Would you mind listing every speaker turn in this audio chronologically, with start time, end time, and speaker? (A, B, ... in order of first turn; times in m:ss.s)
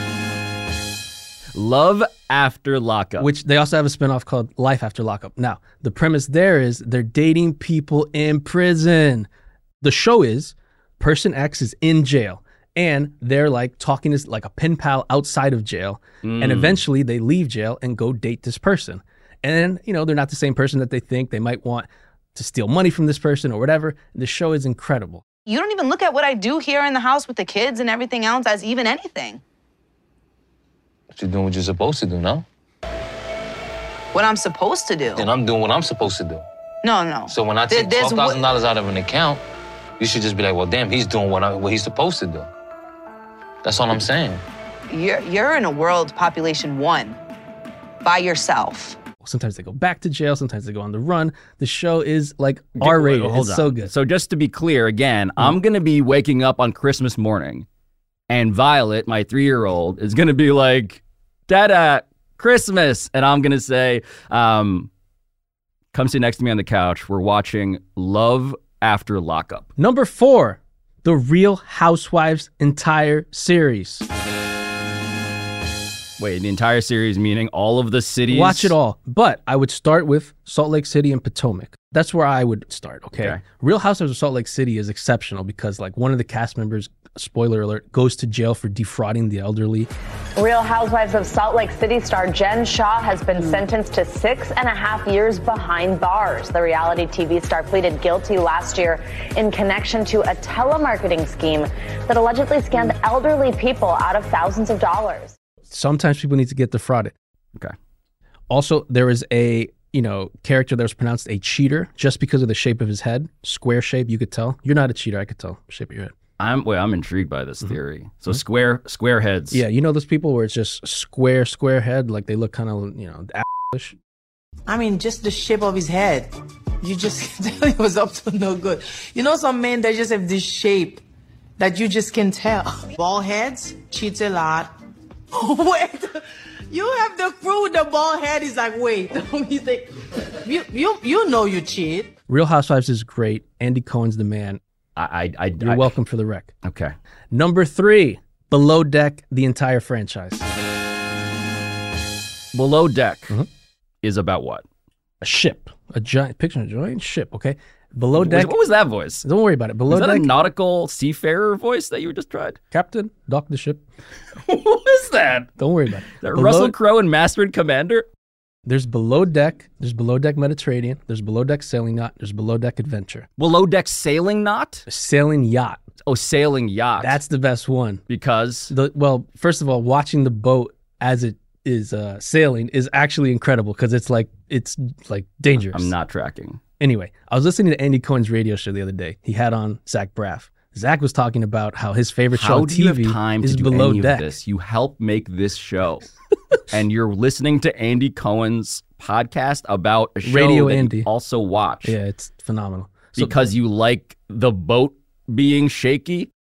0:01.5-0:03.3 A
0:03.2-0:09.3 B
0:09.8-0:25.2 B
0:16.2-0:16.8 A
0:25.4-0:29.4 C
0:31.1-0:32.4 D
0:34.1-0:35.3 C
0:35.1-0:36.4 D
0:36.8-0:38.4 C
0:37.3-0:39.4 D
0:40.0-0:42.5 D
0:43.6-0:44.4 D
0:44.9-0:47.2 C
0:48.0-0:49.0 C
0:49.2-0:53.9 B
0:52.8-0:57.6 A
0:58.3-1:04.9 A
1:05.9-1:09.7 A
1:09.8-1:14.0 B
1:16.2-1:18.7 A
1:18.3-1:29.9 B
1:30.4-1:45.3 E
1:45.7-1:47.1 B
1:48.5-1:56.1 B
1:56.4-1:59.6 A
1:59.5-2:04.0 B
2:04.7-2:11.0 F
2:11.6-2:14.7 F
2:15.3-2:19.9 F
2:20.4-2:22.1 F
2:22.3-2:24.6 B
2:25.0-2:25.9 A
2:25.6-2:26.5 B
2:26.6-2:26.9 A
2:27.3-2:30.4 B
2:32.5-2:33.3 A
2:34.0-2:34.6 A
2:35.2-2:38.6 B
2:38.1-2:39.2 A
2:39.2-2:40.3 B
2:39.9-2:42.6 A
2:42.7-2:43.8 B
2:44.5-2:45.5 A
2:45.6-2:46.7 B
2:46.2-2:48.0 A
2:48.6-2:53.3 B
2:53.4-2:54.8 A
2:54.9-2:55.8 B
2:56.0-2:57.2 A
2:57.0-2:58.0 B
2:58.1-2:58.7 A
2:58.7-3:05.9 B
3:05.7-3:06.6 A
3:06.8-3:14.3 B
3:12.3-3:16.0 A
3:16.7-3:22.0 A
3:20.2-3:21.1 B
3:21.8-3:23.4 B
3:23.2-3:26.3 A